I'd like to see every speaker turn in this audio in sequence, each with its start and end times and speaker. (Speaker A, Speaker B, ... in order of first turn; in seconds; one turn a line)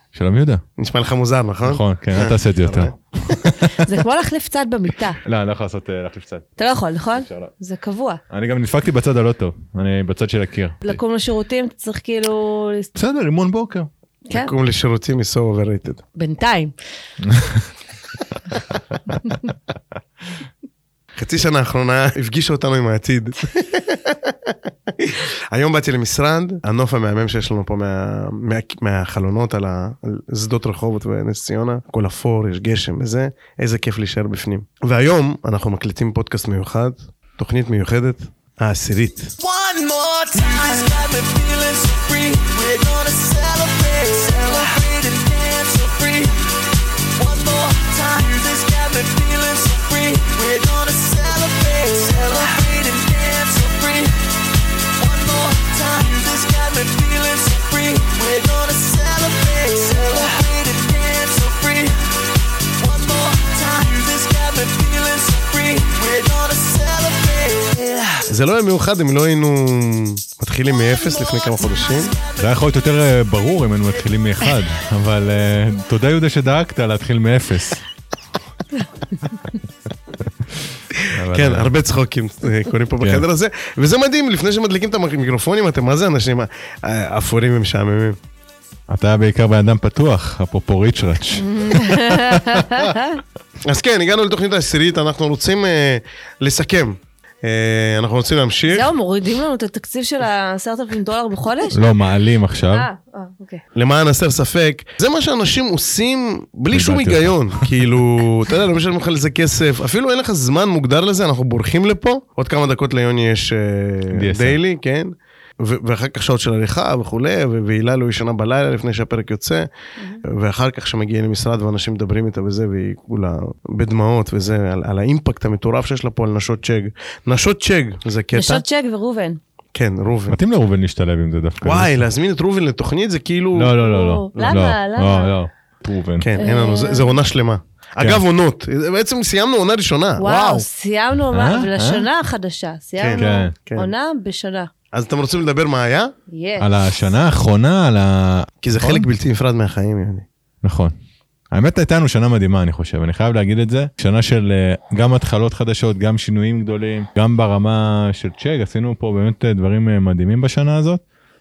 Speaker A: 0.1-0.6
Speaker B: 0.8-3.4
Speaker A: 1.6-3.9
Speaker C: 3.7-5.2
Speaker A: 5.2-6.5
Speaker C: 6.6-8.2
Speaker A: 7.2-7.5
Speaker A: 8.3-11.0
Speaker C: 10.8-12.9
Speaker A: 12.9-13.9
Speaker B: 14.3-16.0
Speaker C: 16.2-16.7
Speaker A: 17.2-17.7
Speaker B: 21.2-39.4
Speaker D: 39.4-46.3
Speaker D: 47.2-54.3
Speaker D: 55.0-62.2
Speaker D: 62.8-68.2
Speaker B: 68.3-72.2
Speaker D: 71.9-72.4
Speaker A: 72.4-77.8
Speaker A: 81.1-81.7
Speaker B: 81.3-88.2
Speaker A: 83.0-83.2
Speaker A: 88.9-92.9
Speaker C: 91.4-93.2
Speaker B: 93.6-98.9
Speaker C: 98.7-101.8
Speaker A: 101.7-102.9
Speaker C: 102.7-103.6
Speaker B: 103.8-119.7
Speaker A: 106.7-107.8
Speaker A: 114.1-114.6
Speaker B: 120.2-128.6
Speaker C: 128.3-129.4
Speaker B: 129.7-130.4
Speaker A: 130.3-132.0
Speaker B: 131.6-133.8
Speaker A: 133.6-136.3
Speaker C: 133.8-135.3
Speaker B: 136.2-140.7
Speaker C: 136.4-137.2
Speaker C: 140.2-144.7
Speaker A: 141.3-142.1
Speaker B: 143.0-143.9
Speaker A: 143.2-143.5
Speaker B: 144.9-146.1
Speaker C: 146.3-147.0
Speaker A: 146.6-149.1
Speaker B: 148.6-150.3
Speaker A: 150.6-150.9
Speaker A: 151.5-161.0